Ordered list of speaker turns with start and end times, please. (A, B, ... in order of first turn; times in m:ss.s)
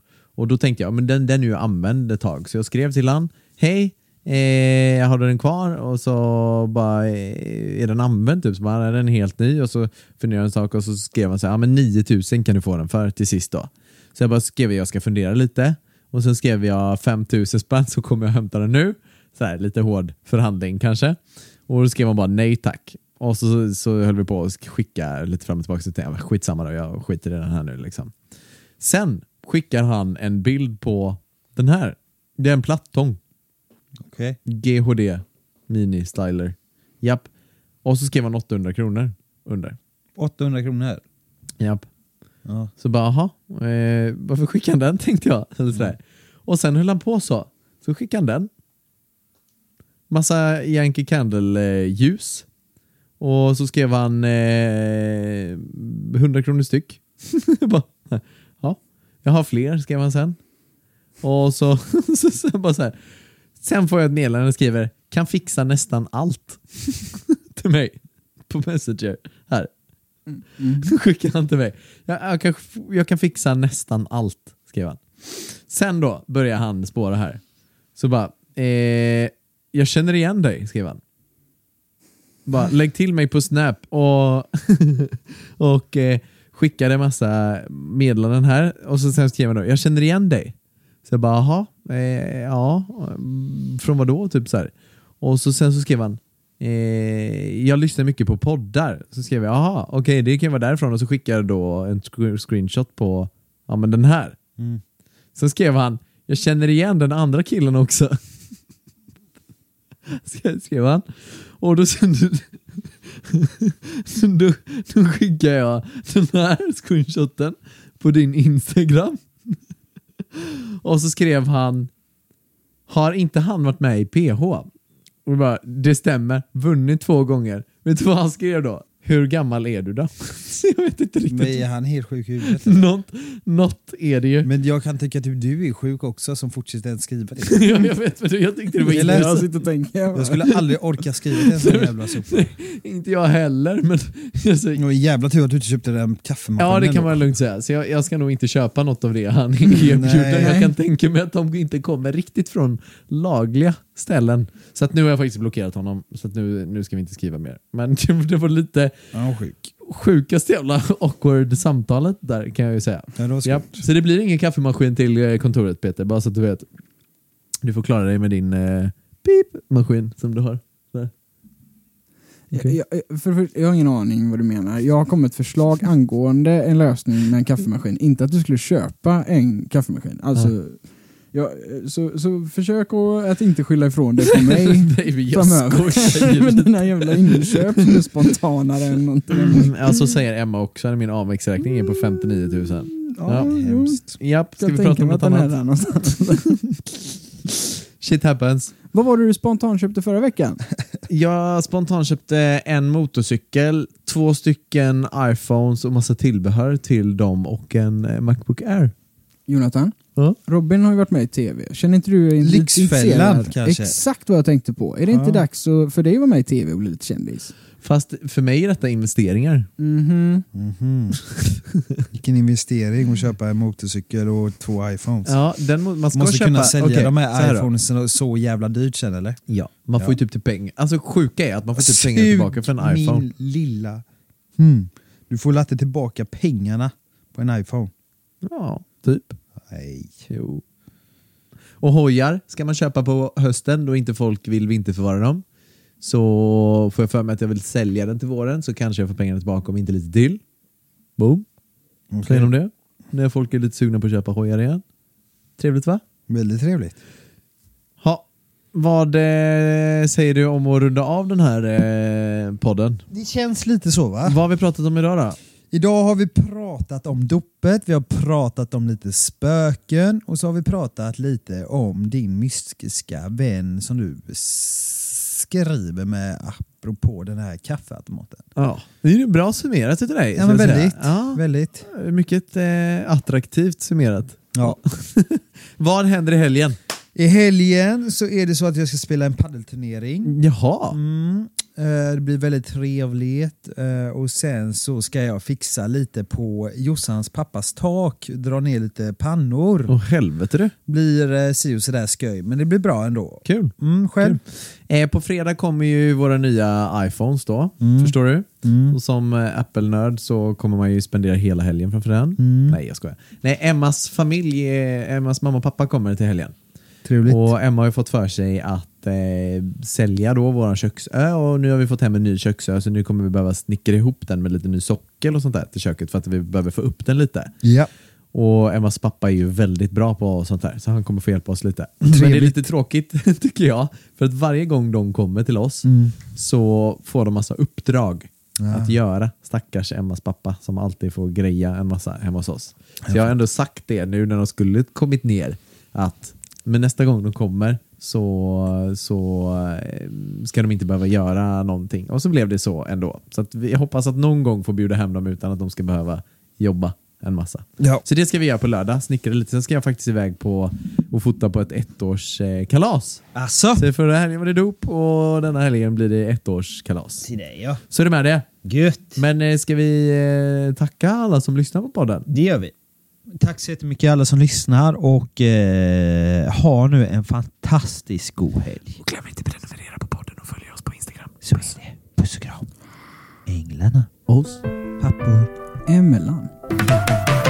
0:00.4-0:28.1 A
0:28.8-0:33.2 A
0:34.0-0:34.4 B
0:34.5-0:37.3 A
0:37.8-0:39.8 A
0:40.2-0:41.0 B
0:41.6-0:41.8 A
0:42.4-0:42.7 B
0:42.8-0:48.5 A
0:50.1-0:52.5 A
0:53.2-1:00.4 A
1:01.2-1:03.0 A
1:03.6-1:09.7 A
1:10.3-1:10.9 C
1:10.8-1:17.4 A
1:18.0-1:21.0 A
1:22.4-1:30.5 A
1:31.0-1:44.4 A
1:45.4-1:48.2 A
1:50.1-1:59.6 A
2:00.3-2:01.9 A
2:02.9-2:04.7 A
2:05.2-2:11.6 A
2:11.3-2:12.9 B
2:12.4-2:14.5 A
2:14.4-2:17.8 B
2:17.5-2:19.5 A
2:18.8-2:20.4 C
2:18.9-2:19.3 B
2:20.1-2:22.5 B
2:21.4-2:24.8 A
2:24.8-2:27.2 B
2:26.6-2:38.9 A
2:29.8-2:30.6 B
2:30.4-2:30.7 C
2:39.1-2:39.6 B
2:39.8-2:46.6 A
2:43.1-2:43.8 B
2:47.6-2:51.1 A
2:52.5-3:09.7 C
3:04.3-3:08.0 A
3:09.4-3:15.6 A
3:13.2-3:14.1 B
3:13.3-3:16.5 C
3:16.7-3:18.7 A
3:18.9-3:20.6 C
3:21.1-3:28.9 A
3:29.5-3:37.5 C
3:32.4-3:34.0 B
3:35.1-3:35.5 B
3:37.8-3:39.7 A
3:39.8-3:40.4 C
3:40.5-3:41.2 B
3:41.2-3:41.6 A
3:42.1-3:45.4 B
3:45.2-3:47.7 A
3:46.1-3:49.4 B
3:49.5-3:53.2 A
3:51.7-3:54.0 B
3:54.6-3:57.9 B
3:58.4-3:59.4 A
3:59.6-4:00.2 B
4:00.3-4:00.6 A
4:01.8-4:05.4 A
4:06.0-4:10.4 A
4:11.2-4:11.4 A
4:12.1-4:12.5 B
4:12.2-4:14.8 A
4:15.6-4:16.0 A
4:16.3-4:17.0 B
4:18.0-4:23.0 A
4:23.1-4:24.4 B
4:24.2-4:25.4 A
4:25.7-4:38.5 B
4:38.6-4:46.8 A
4:40.4-4:41.8 B
4:47.1-4:50.3 B
4:50.2-4:51.0 A
4:50.9-4:59.9 B
4:59.9-5:00.7 A
5:00.9-5:04.4 B
5:03.4-5:16.5 A
5:07.8-5:09.0 B
5:12.4-5:12.8 B
5:17.0-5:17.5 B
5:17.2-5:27.5 A
5:27.6-5:27.9 B
5:28.3-6:03.2 A
5:32.0-5:32.6 B
5:35.8-5:36.2 B
5:38.6-5:38.9 B
5:43.0-5:43.3 B
5:57.8-5:58.0 B
6:03.3-6:03.8 B
6:03.8-6:07.3 A
6:07.2-6:07.8 B
6:07.9-6:08.5 A
6:08.6-6:09.2 B
6:09.2-6:12.2 A
6:12.3-6:12.7 B
6:13.3-6:19.0 B
6:19.0-6:21.7 A
6:21.4-6:22.7 B
6:23.4-6:24.2 B
6:24.3-6:24.6 A
6:25.0-6:25.5 B
6:25.9-6:26.5 C